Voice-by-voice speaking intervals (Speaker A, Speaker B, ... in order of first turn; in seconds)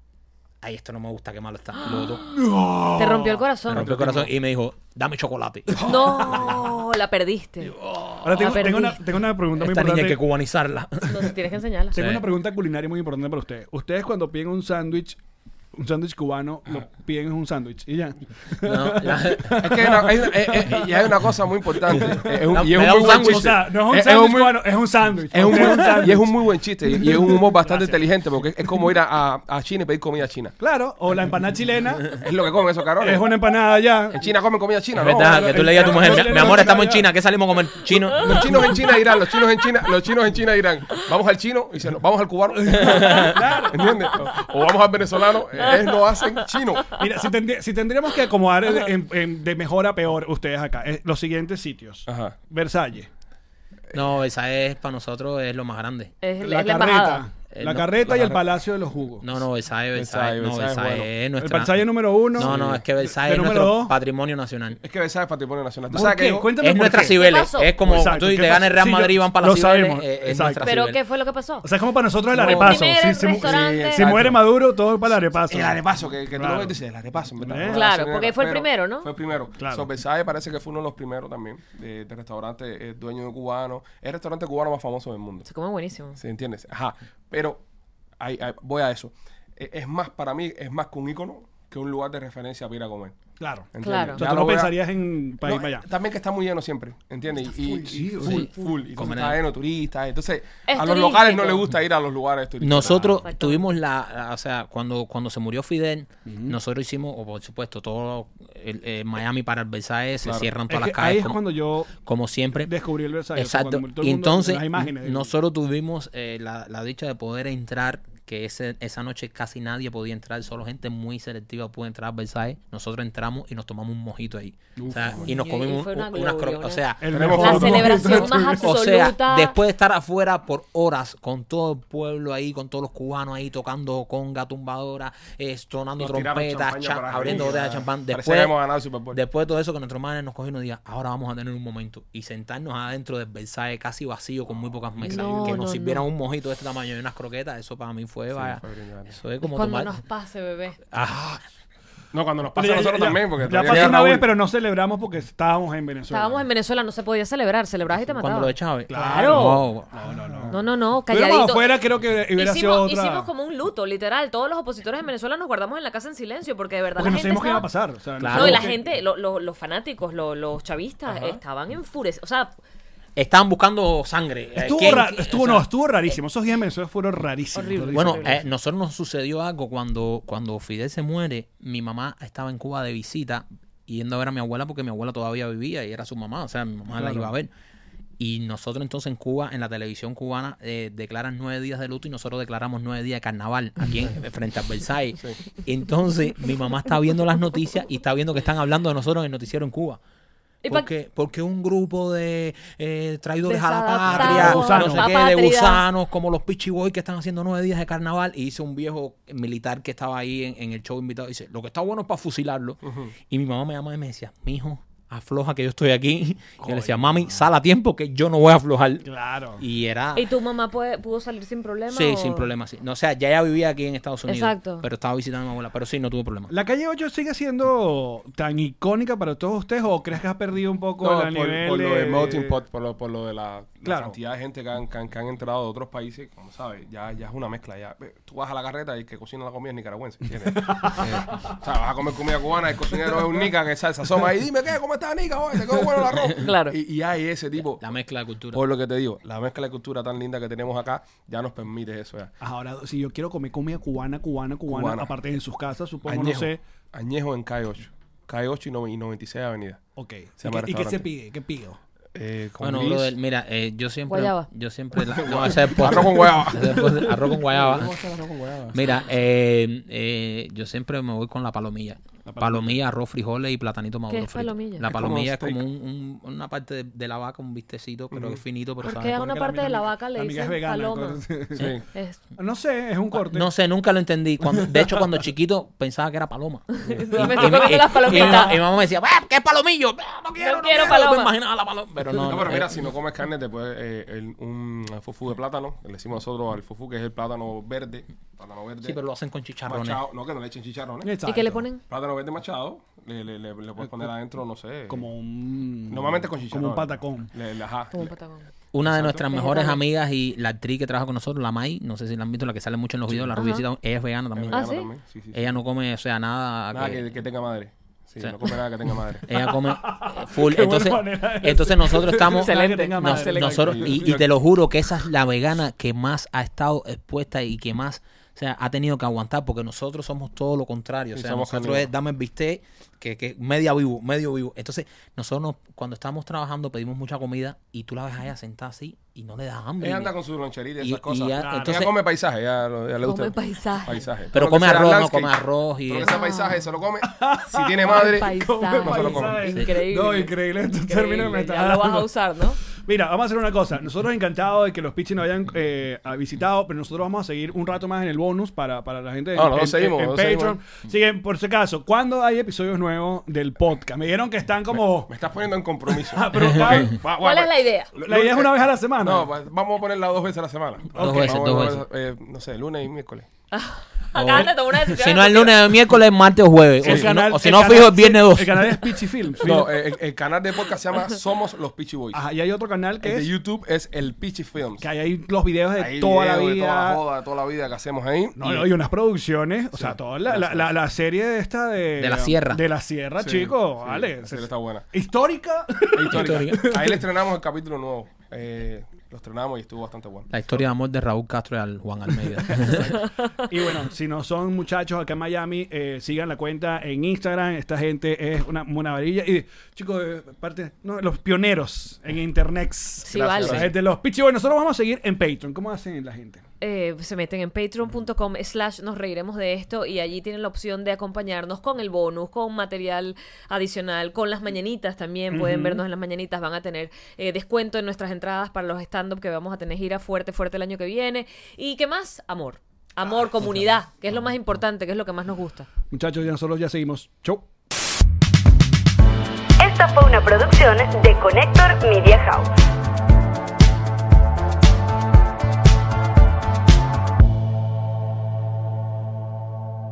Speaker A: 0.6-2.3, 3.7-6.5, 7.8-8.6, 9.6-11.3, 11.9-12.2, 18.6-19.7, 22.5-23.6, 35.0-38.8, 42.8-43.4, 53.9-56.1, 57.5-58.1, 59.2-64.8, 66.6-71.0, 72.4-72.8, 98.2-99.4, 102.6-111.4, 112.0-112.8, 113.3-138.6, 139.1-149.9, 150.9-151.4, 153.7-154.1, 158.2-159.9, 168.2-168.7, 173.2-175.7, 177.9-187.5, 188.2-200.0, 200.7-220.3, 221.9-226.5, 247.8-248.6, 262.6-267.9, 268.7-279.2, 283.1-292.9, 298.8-300.0, 308.7-314.7, 315.3-317.0, 318.2-318.6, 319.2-340.1, 340.8-341.9, 344.3-346.2, 371.0-371.8, 374.2-379.0, 392.0-392.6, 396.1-396.8, 400.3-403.0
Speaker B: 2.2-3.5, 5.8-6.7, 8.2-10.2, 11.9-15.2, 15.7-21.1, 21.8-28.0, 30.6-32.1, 33.0-34.3, 35.0-37.1, 38.3-38.9, 42.5-44.1, 46.9-53.1, 56.4-59.4, 61.4-64.0, 65.9-70.7, 71.6-75.8, 76.3-76.8, 77.4-77.8, 79.6-79.9, 93.4-95.9, 97.6-98.5, 106.3-106.6, 110.7-111.9, 112.6-115.3, 124.8-125.3, 127.0-128.8, 145.1-145.7, 152.5-156.4, 158.9-163.3, 166.9-168.8, 174.6-178.4, 186.9-187.3, 204.1-205.1, 216.6-217.4, 219.0-219.6, 226.5-232.6, 233.8-234.2, 240.5-241.5, 242.9-243.3, 252.4-256.6, 260.0-261.8, 266.8-267.4, 272.3-272.8, 279.1-281.7, 282.4-283.5, 284.4-285.2, 287.1-288.6, 301.0-301.7, 304.9-307.3, 319.3-324.2, 341.4-341.9, 347.0-352.1, 352.8-365.1, 365.9-367.0, 368.0-369.3, 370.9-371.7, 376.8-379.8, 382.1-383.3, 384.8-387.0, 388.4-397.0, 402.3-416.4, 425.3-425.8, 435.9-437.5
Speaker C: 3.0-3.9, 5.8-7.7, 8.3-9.0, 11.1-12.0, 45.7-46.0, 56.2-57.3, 67.1-67.7, 70.6-71.7, 72.3-74.2, 77.7-79.1, 85.5-86.2, 93.8-94.2, 100.7-101.7, 103.2-103.7, 125.2-129.6, 145.0-146.1, 149.4-150.8, 156.1-159.7, 160.5-161.8, 162.4-167.7, 168.3-172.6, 177.6-178.4, 203.4-205.8, 220.1-222.5, 224.3-224.9, 246.4-246.8, 264.1-264.5, 274.1-274.9, 278.8-281.2, 281.9-282.2, 286.8-288.6, 290.4-291.3, 301.3-301.8, 307.9-308.5, 309.3-309.8, 313.4-313.6, 314.5-314.9, 322.2-323.6, 343.0-344.1, 346.1-346.6, 347.9-352.6, 367.1-367.9, 373.5-375.7, 413.1-413.7, 416.6-435.7
Speaker D: 3.7-4.3, 19.6-24.8, 25.3-30.6, 32.2-33.2, 34.1-36.9, 37.9-46.9, 52.1-52.4, 58.0-58.4, 60.0-61.1, 62.4-62.8, 64.8-66.6, 73.4-74.5, 75.5-85.5, 86.2-87.6, 88.2-93.2, 93.7-94.8, 95.4-103.3, 110.2-110.5, 127.1-128.1, 136.0-139.2, 148.3-149.2, 152.1-154.3, 212.8-213.1, 231.0-247.8, 248.5-252.3, 254.7-255.1, 256.1-259.8, 260.4-261.1, 262.1-263.1, 265.1-268.9, 274.9-275.6, 278.1-278.4, 281.6-281.9, 292.1-299.0, 299.7-301.2, 301.9-305.1, 305.9-308.2, 308.8-309.3, 313.1-313.4, 314.3-315.5, 316.7-319.3, 323.6-324.3, 331.1-331.9, 339.8-349.5, 359.4-360.6, 364.7-373.3, 379.4-382.2, 383.0-384.9, 385.8-388.7, 389.7-390.7, 393.2-394.9, 395.9-400.7, 413.1-413.7
Speaker E: 439.6-442.5